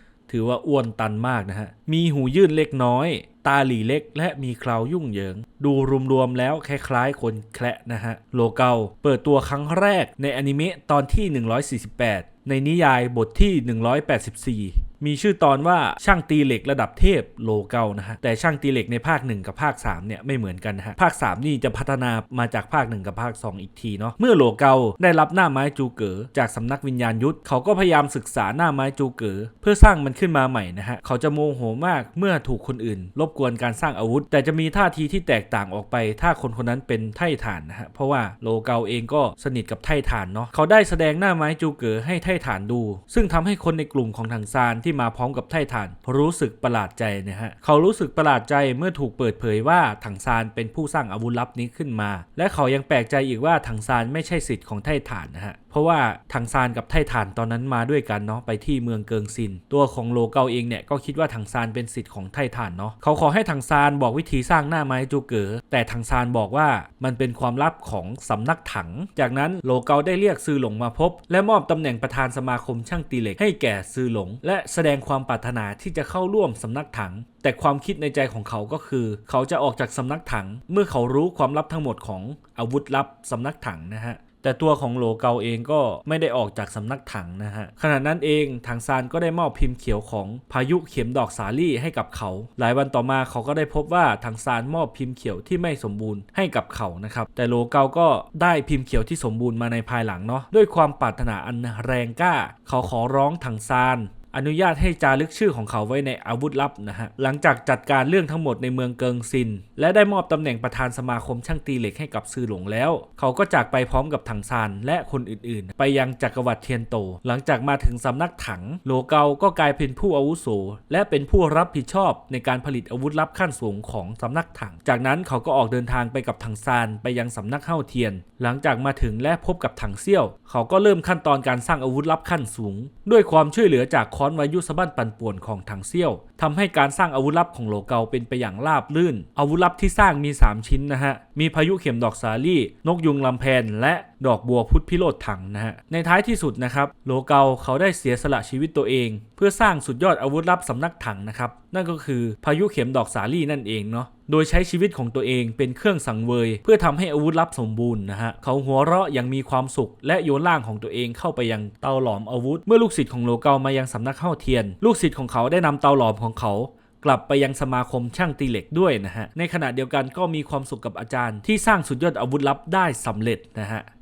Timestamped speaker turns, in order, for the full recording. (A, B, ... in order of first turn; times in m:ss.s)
0:00.3-2:53.9 A